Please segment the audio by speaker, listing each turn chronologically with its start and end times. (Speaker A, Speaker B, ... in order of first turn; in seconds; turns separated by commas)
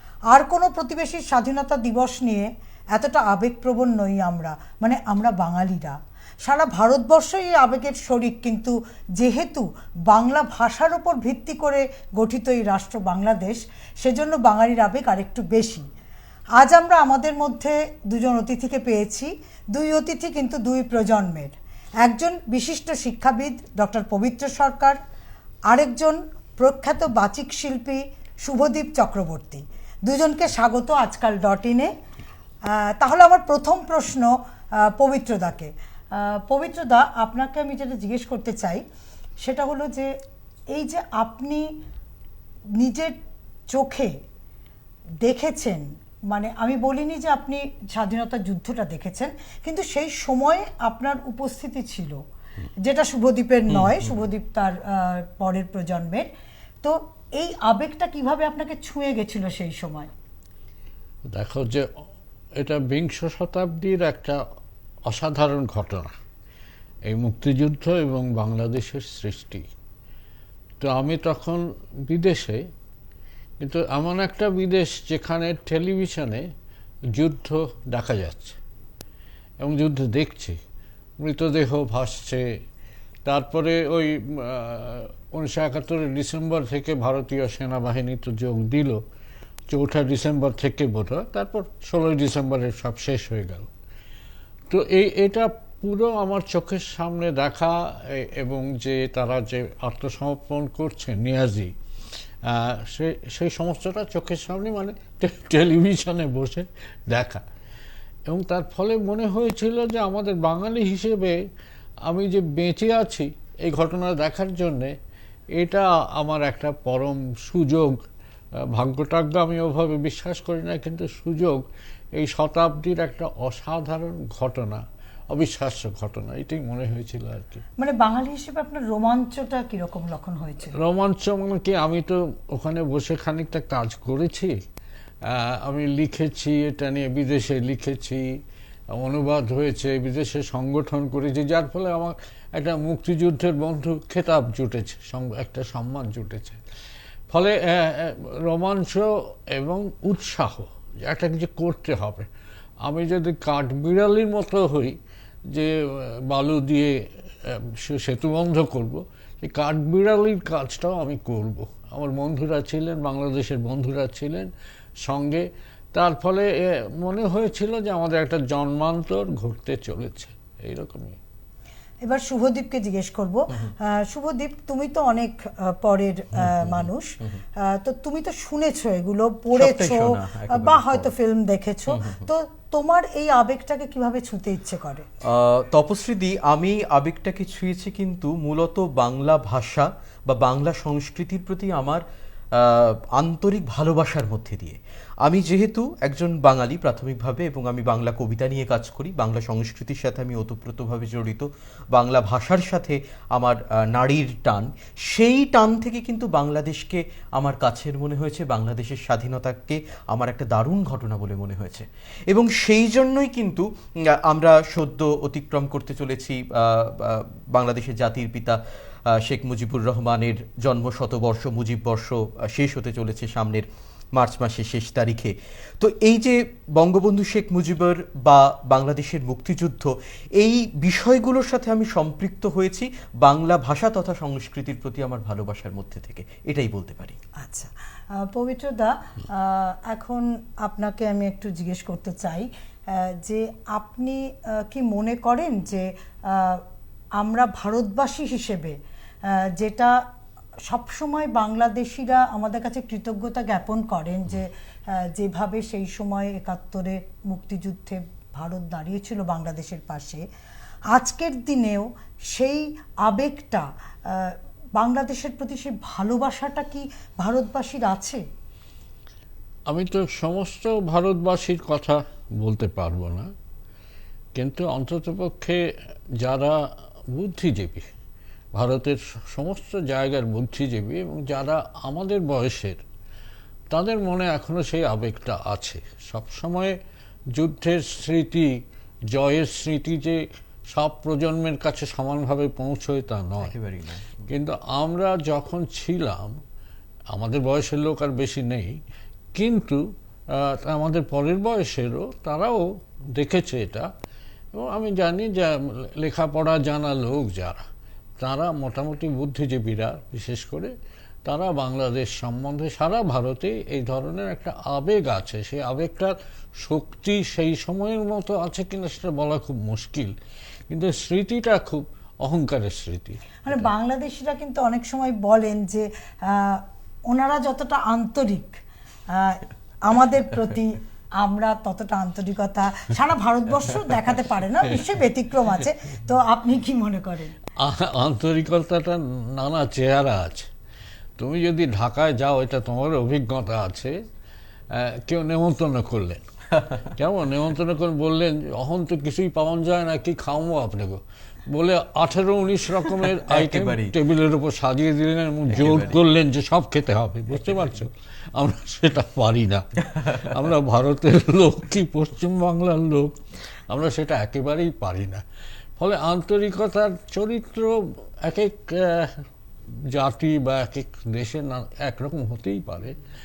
Speaker A: 0.3-15.8, Speaker A: 16.6-25.0, Speaker A: 25.7-31.9, Speaker A: 32.7-38.8, Speaker A: 39.4-40.1, Speaker A: 40.7-41.7, Speaker A: 42.8-43.1, Speaker A: 43.7-44.1, Speaker A: 45.2-52.2, Speaker A: 52.8-56.3, Speaker B: 53.8-54.1, Speaker A: 56.8-60.1, Speaker C: 61.3-61.9, Speaker C: 62.6-64.4, Speaker C: 65.1-66.1, Speaker C: 67.1-69.7, Speaker C: 70.8-72.6, Speaker C: 73.6-76.5, Speaker C: 77.1-78.6, Speaker C: 79.6-80.6, Speaker C: 81.2-82.5, Speaker C: 83.3-89.0, Speaker C: 89.7-93.7, Speaker C: 94.7-101.7, Speaker C: 102.5-107.4, Speaker C: 108.3-111.4, Speaker C: 112.1-114.9, Speaker C: 115.6-117.9, Speaker C: 118.7-121.6, Speaker C: 122.2-127.6, Speaker A: 127.8-130.8, Speaker C: 130.8-134.5, Speaker C: 135.3-138.3, Speaker C: 139.0-146.6, Speaker C: 147.3-152.3, Speaker C: 152.8-155.0, Speaker C: 155.5-164.5, Speaker C: 165.0-171.2, Speaker A: 172.0-185.1, Speaker B: 179.5-181.1, Speaker B: 181.9-182.2, Speaker B: 185.2-192.0, Speaker B: 192.5-218.6, Speaker B: 219.1-237.2, Speaker A: 237.4-246.6, Speaker A: 247.2-248.8, Speaker A: 249.3-249.9, Speaker A: 250.7-260.2, Speaker A: 260.9-268.2, Speaker C: 269.7-273.3, Speaker C: 274.4-275.6, Speaker C: 276.2-276.6, Speaker C: 277.1-277.9, Speaker C: 278.5-282.8, Speaker C: 283.7-286.8, Speaker C: 287.4-288.5, Speaker C: 289.1-290.2, Speaker C: 290.7-293.5, Speaker B: 293.4-294.3, Speaker C: 294.3-296.3, Speaker C: 297.1-298.8, Speaker C: 299.4-303.9, Speaker C: 304.5-307.6, Speaker C: 308.2-310.7, Speaker C: 311.3-320.1, Speaker C: 320.7-323.7, Speaker A: 323.4-328.6, Speaker A: 329.1-337.4, Speaker C: 337.6-340.5, Speaker C: 341.2-343.9, Speaker C: 344.7-346.2, Speaker C: 347.0-363.2, Speaker B: 353.3-354.0, Speaker B: 355.5-356.0, Speaker C: 363.7-365.2, Speaker C: 365.8-369.1, Speaker C: 369.9-373.0